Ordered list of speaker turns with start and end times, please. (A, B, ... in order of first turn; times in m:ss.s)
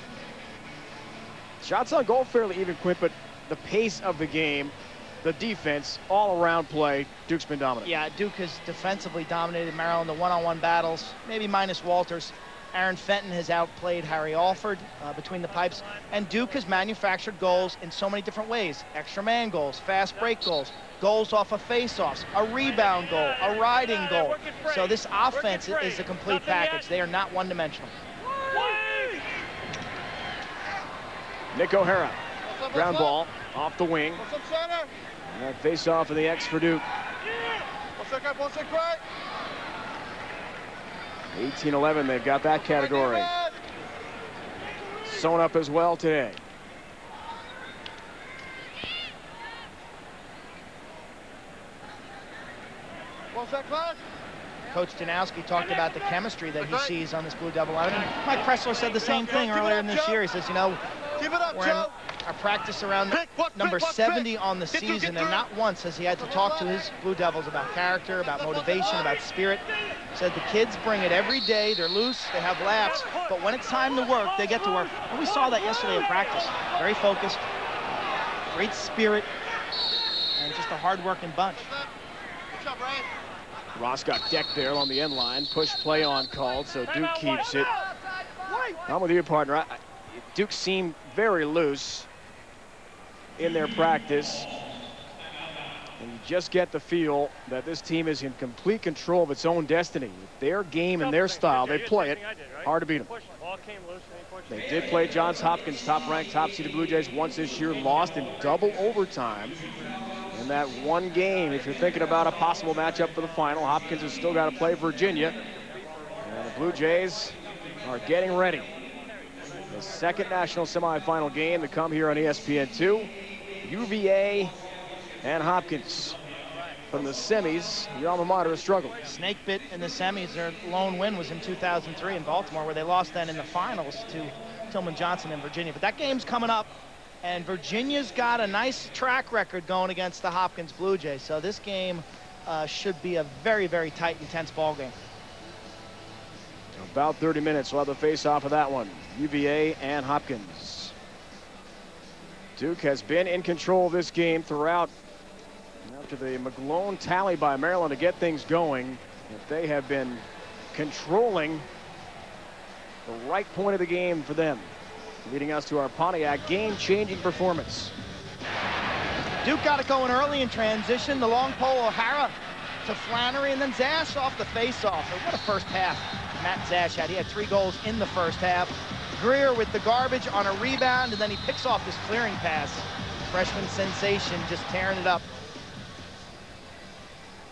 0:01.6-0:07.9 A
0:07.8-0:27.9 B
0:31.5-0:34.2 A
0:35.3-0:36.8 A
0:41.3-0:43.3 A
0:45.0-0:46.4 A
0:54.7-1:00.8 B
1:01.5-1:17.4 B
1:18.5-1:19.3 B
1:20.4-1:21.7 B
1:23.7-1:27.7 A
1:28.9-1:32.1 A
1:33.4-1:34.5 A
1:36.0-1:43.2 A
1:44.5-1:49.6 A
1:50.3-1:55.4 A
1:56.2-1:58.7 A
1:59.7-2:03.1 A
2:03.6-2:04.5 A
2:05.2-2:06.2 A
2:06.9-2:09.0 A
2:09.0-2:24.9 B
2:26.8-2:30.9 A
2:32.6-2:34.9 A
2:35.8-2:41.6 A
2:43.0-2:44.7 A
2:45.2-2:47.9 A
2:49.4-3:05.3 B